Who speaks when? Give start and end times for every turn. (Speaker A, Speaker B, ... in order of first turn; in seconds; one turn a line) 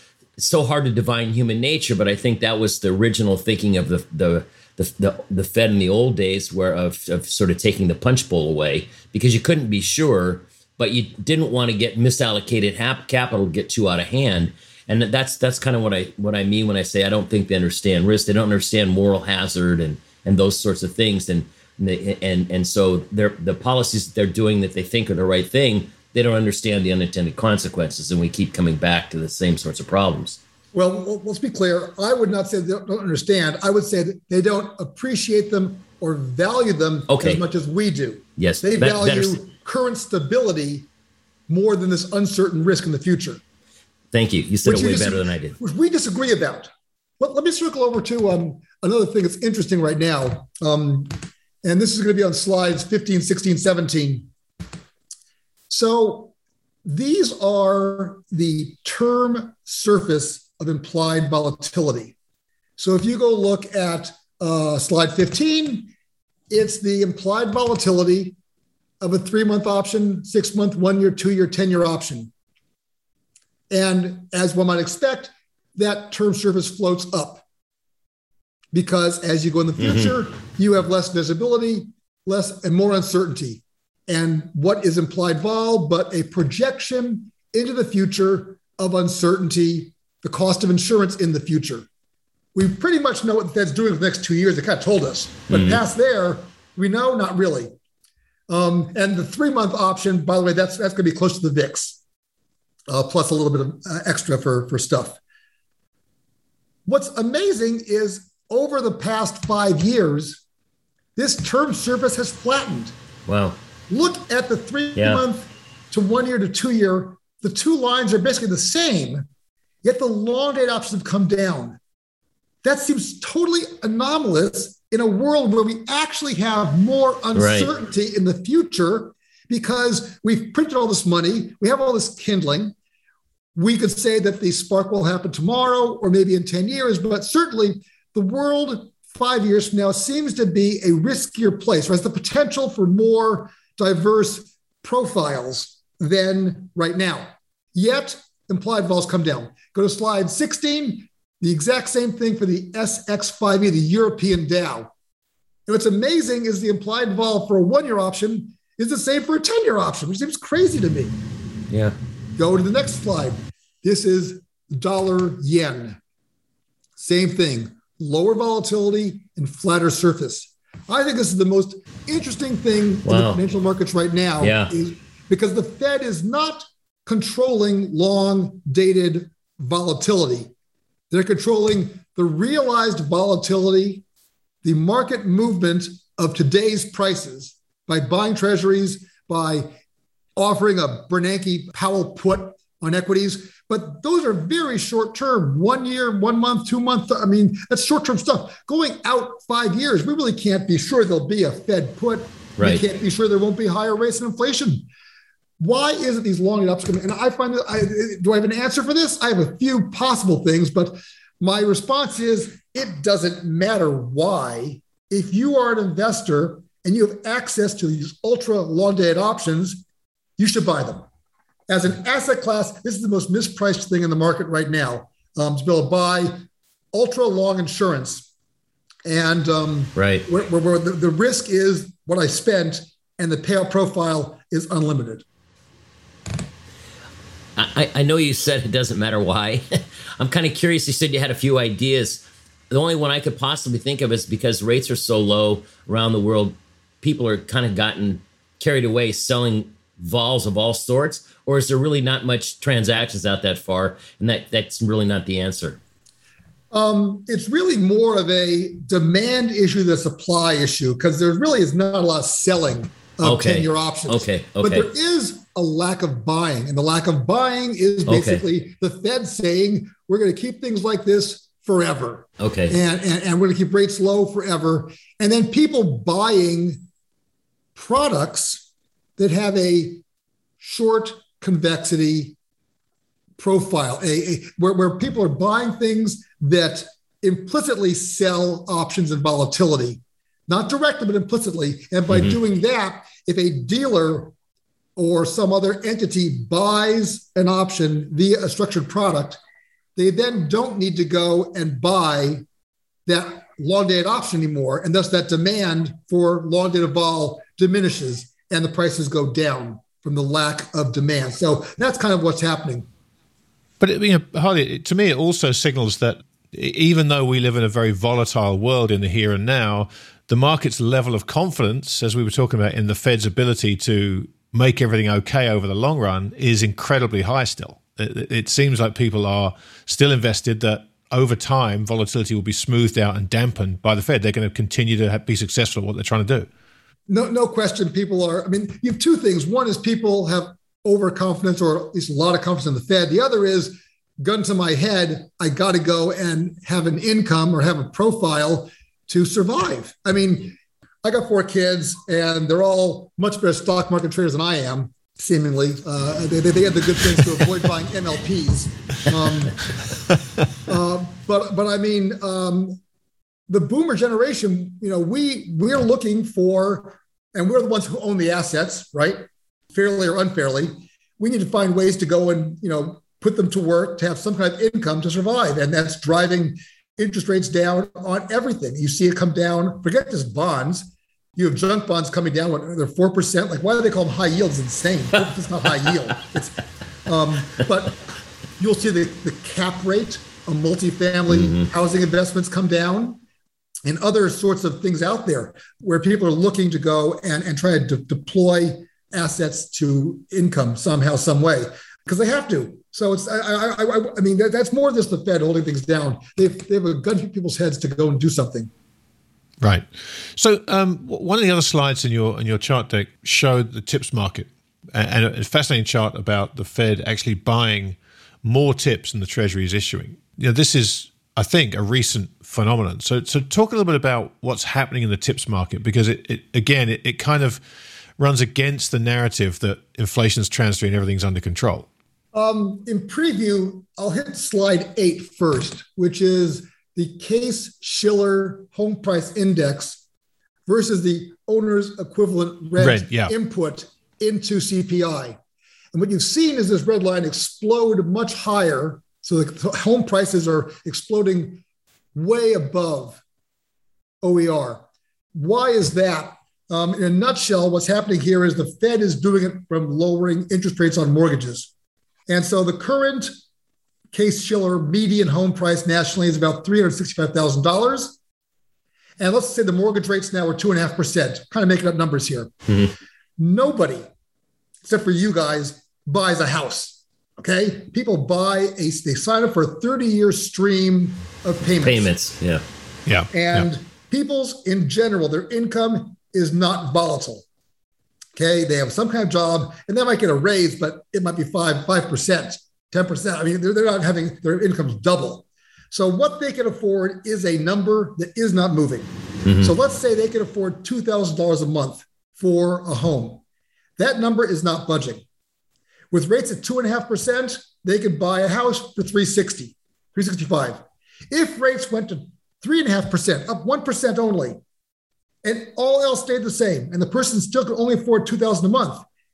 Speaker A: 0.4-30.4
Speaker B: 30.7-40.9
Speaker A: 37.1-37.4
Speaker A: 38.4-39.4
Speaker B: 41.5-43.4
Speaker A: 44.1-45.6
Speaker B: 44.6-46.7
Speaker B: 47.2-54.3
Speaker B: 55.7-56.3
Speaker B: 56.9-62.1
Speaker B: 62.8-65.9
Speaker B: 66.5-68.4
Speaker B: 69.0-72.3
Speaker B: 73.7-77.4
Speaker B: 78.7-91.9
Speaker B: 92.5-97.7
Speaker A: 95.5-95.8
Speaker B: 98.5-102.0
Speaker B: 102.9-105.2
Speaker B: 106.9-110.4
Speaker B: 111.2-113.0
Speaker A: 113.3-113.6
Speaker B: 113.9-119.3
Speaker A: 115.0-115.2
Speaker B: 119.8-121.8
Speaker B: 122.6-132.8
Speaker A: 127.3-127.7
Speaker B: 133.6-154.9
Speaker B: 155.7-161.2
Speaker A: 161.7-161.9
Speaker B: 162.4-166.0
Speaker B: 167.0-180.5
Speaker A: 173.1-173.4
Speaker A: 174.4-174.7
Speaker B: 181.1-184.0
Speaker B: 184.6-189.7
Speaker B: 190.4-204.9
Speaker B: 205.6-219.8
Speaker B: 220.4-221.1
Speaker B: 221.7-228.3
Speaker B: 229.1-235.2
Speaker A: 230.0-230.3
Speaker A: 237.6-255.8
Speaker B: 256.7-276.9
Speaker A: 263.2-264.9
Speaker A: 268.1-268.4
Speaker A: 272.4-272.8
Speaker B: 277.8-278.6
Speaker B: 279.2-280.0
Speaker B: 280.6-282.4
Speaker B: 283.4-294.3
Speaker A: 292.1-292.4
Speaker B: 295.0-299.4
Speaker B: 300.0-302.4
Speaker B: 303.1-312.9
Speaker C: 313.8-336.5
Speaker B: 337.1-359.6
Speaker B: 360.6-362.8
Speaker B: 363.5-388.0
Speaker B: 388.6-393.2
Speaker A: 391.3-391.7
Speaker B: 393.9-408.7
Speaker C: 409.6-427.6
Speaker C: 428.2-431.9
Speaker B: 432.3-440.0
Speaker B: 440.7-445.4
Speaker C: 442.8-443.3
Speaker B: 445.9-451.6
Speaker B: 452.1-453.2
Speaker B: 454.2-461.7
Speaker B: 462.3-463.3
Speaker B: 464.1-468.2
Speaker B: 469.2-472.5
Speaker B: 473.4-474.0
Speaker B: 474.8-482.1
Speaker A: 481.8-482.6
Speaker C: 483.1-483.6
Speaker B: 483.3-487.4
Speaker B: 488.4-503.4
Speaker A: 499.4-499.7
Speaker B: 504.0-505.2
Speaker B: 506.1-514.6
Speaker B: 515.4-519.0